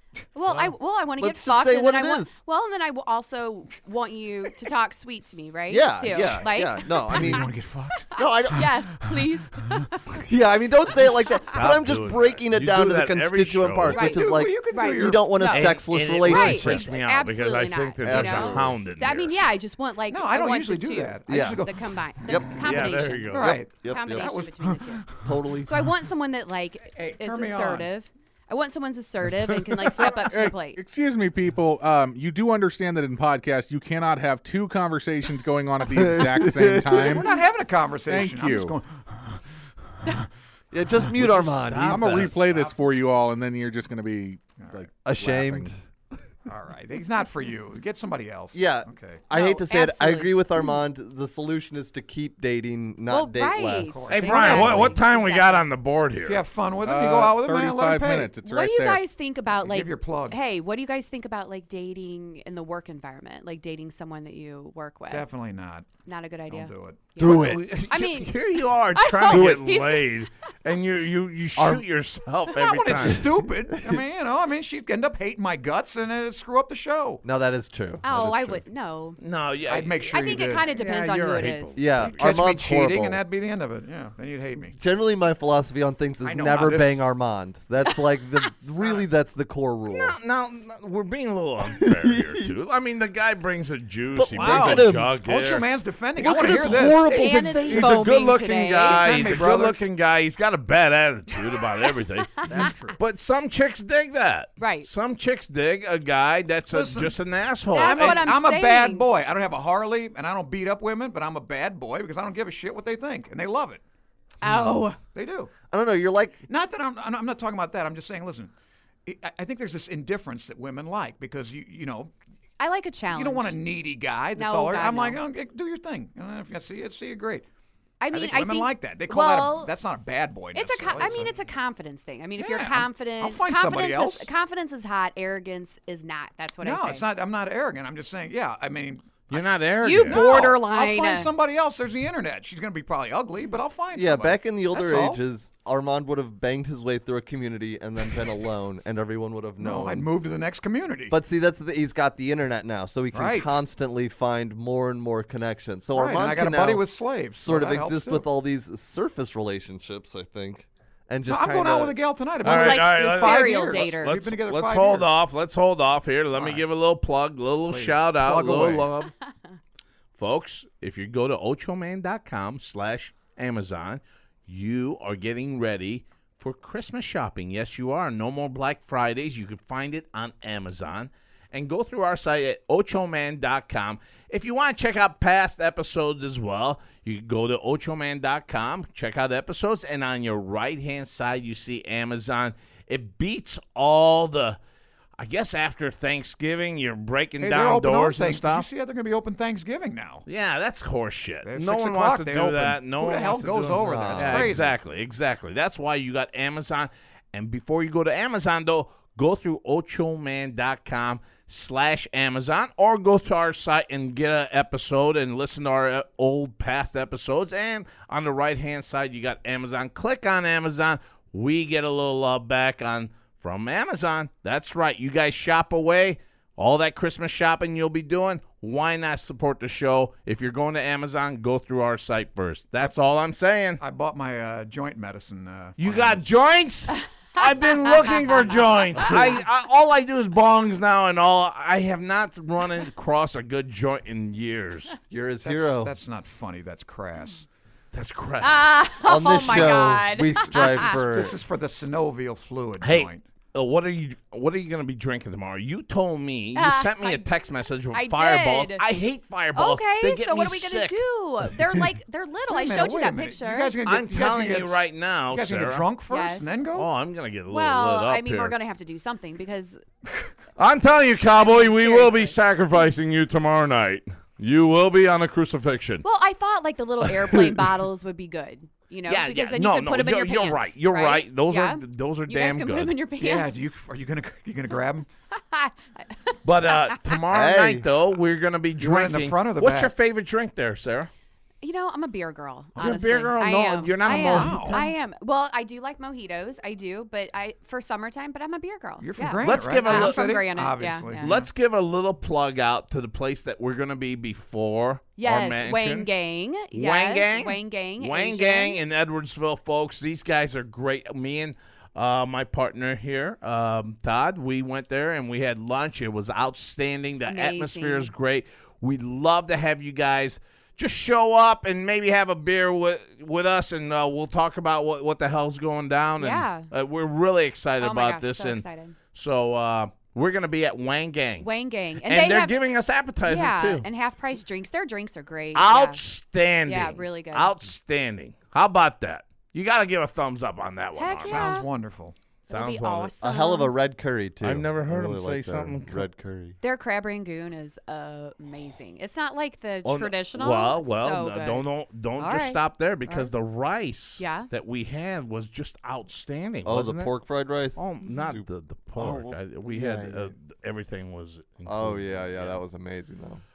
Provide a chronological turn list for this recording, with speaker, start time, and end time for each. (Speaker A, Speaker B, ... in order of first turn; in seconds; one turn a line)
Speaker A: 0.3-7.5
Speaker B: 1.2-2.4
Speaker B: 5.7-7.5
Speaker C: 6.1-9.8
Speaker B: 8.1-8.7
Speaker A: 8.1-10.2
Speaker B: 10.1-16.9
Speaker D: 11.5-14.1
Speaker A: 13.9-25.1
Speaker C: 13.9-15.4
Speaker D: 15.5-19.5
Speaker B: 18.0-18.8
Speaker C: 20.1-22.6
Speaker B: 21.3-21.6
Speaker B: 22.2-22.5
Speaker D: 22.5-23.5
Speaker C: 23.3-25.3
Speaker B: 23.3-24.5
Speaker B: 25.2-25.8
Speaker A: 25.6-30.8
Speaker C: 26.9-27.9
Speaker E: 30.1-37.2
Speaker B: 35.9-37.2
Speaker C: 36.9-39.5
Speaker E: 38.1-38.8
Speaker B: 40.7-42.4
Speaker D: 41.2-42.6
Speaker E: 41.9-45.7
Speaker C: 44.6-44.9
Speaker B: 45.0-45.8
Speaker C: 46.5-49.2
Speaker B: 48.5-54.9
Speaker A: 49.3-50.6
Speaker A: 53.1-55.6
Speaker C: 53.9-55.0
Speaker D: 54.1-56.4
Speaker C: 56.2-58.4
Speaker E: 56.8-59.0
Speaker A: 58.4-65.3
Speaker C: 59.6-60.4
Speaker C: 65.1-65.9
Speaker A: 66.0-70.2
Speaker C: 66.5-67.2
Speaker B: 67.2-67.6
Speaker D: 67.2-73.3
Speaker B: 69.3-69.6
Speaker C: 72.5-77.2
Speaker B: 73.7-74.0
Speaker B: 77.2-78.6
Speaker A: 78.0-79.2
Speaker D: 79.2-82.2
Speaker C: 79.7-80.7
Speaker A: 80.1-81.8
Speaker B: 81.8-83.2
Speaker C: 82.0-84.8
Speaker B: 84.8-90.2
Speaker C: 86.2-87.0
Speaker C: 88.8-89.0
Speaker D: 89.9-95.7
Speaker B: 91.6-92.5
Speaker B: 94.1-95.1
Speaker C: 94.3-97.1
Speaker B: 96.2-98.2
Speaker A: 97.0-99.3
Speaker D: 97.1-108.3
Speaker C: 98.8-99.8
Speaker C: 102.4-103.0
Speaker A: 104.6-104.9
Speaker C: 106.7-107.1
Speaker A: 107.7-109.1
Speaker C: 107.7-113.8
Speaker A: 114.4-115.0
Speaker B: 114.4-114.8
Speaker C: 115.1-115.5
Speaker B: 115.7-116.5
Speaker C: 116.5-118.5
Speaker C: 119.0-122.1
Speaker A: 122.6-123.5
Speaker C: 123.1-127.5
Speaker A: 124.3-125.2
Speaker A: 128.0-129.7
Speaker C: 128.1-131.3
Speaker A: 130.5-137.0
Speaker C: 132.4-134.3
Speaker C: 136.6-139.4
Speaker D: 139.3-140.5
Speaker A: 139.8-141.3
Speaker C: 139.9-145.2
Speaker B: 143.9-150.1
Speaker C: 149.6-151.2
Speaker B: 151.1-156.8
Speaker C: 153.1-153.6
Speaker C: 155.9-158.2
Speaker B: 157.4-161.9
Speaker C: 161.3-165.1
Speaker D: 162.4-169.1
Speaker A: 162.4-164.1
Speaker C: 166.3-166.7
Speaker C: 167.7-169.1
Speaker D: 170.2-194.6
Speaker D: 195.2-198.7
Speaker C: 197.4-200.2
Speaker D: 200.2-233.8
Speaker C: 201.4-204.8
Speaker B: 203.8-204.7
Speaker C: 233.8-236.2
Speaker D: 235.8-244.9
Speaker A: 237.8-239.3
Speaker B: 245.1-245.9
Speaker C: 245.4-247.4
Speaker D: 247.9-248.7
Speaker A: 248.4-251.0
Speaker B: 249.0-251.4
Speaker C: 250.5-253.2
Speaker D: 252.8-261.0
Speaker A: 256.5-257.3
Speaker A: 257.9-258.8
Speaker A: 259.5-263.7
Speaker C: 262.5-266.9
Speaker D: 263.8-265.9
Speaker A: 266.1-266.5
Speaker D: 266.7-268.6
Speaker A: 267.5-269.8
Speaker D: 270.6-276.0
Speaker A: 271.4-272.4
Speaker A: 276.0-283.5
Speaker D: 279.1-283.0
Speaker C: 283.2-285.1
Speaker A: 285.3-287.2
Speaker D: 286.4-291.1
Speaker B: 287.3-287.9
Speaker C: 288.8-289.9
Speaker A: 291.6-301.3
Speaker D: 292.8-294.9
Speaker C: 294.0-294.9
Speaker C: 299.0-301.5
Speaker D: 299.4-300.2
Speaker D: 301.2-306.1
Speaker A: 305.2-308.8
Speaker D: 306.7-331.5
Speaker A: 317.2-318.1
Speaker A: 326.2-326.7
Speaker A: 327.8-328.9
Speaker A: 331.4-332.6
Speaker D: 332.0-333.9
Speaker A: 333.2-336.0
Speaker D: 335.5-341.6
Speaker A: 336.6-337.5
Speaker A: 340.9-341.7
Speaker C: 341.2-342.1
Speaker D: 342.5-343.1
Speaker A: 342.5-343.7
Speaker B: 343.2-346.6
Speaker D: 344.4-346.1
Speaker A: 346.6-353.3
Speaker D: 349.8-357.1
Speaker A: 354.2-354.5
Speaker B: 356.6-360.3
Speaker D: 357.7-362.6
Speaker B: 361.6-363.4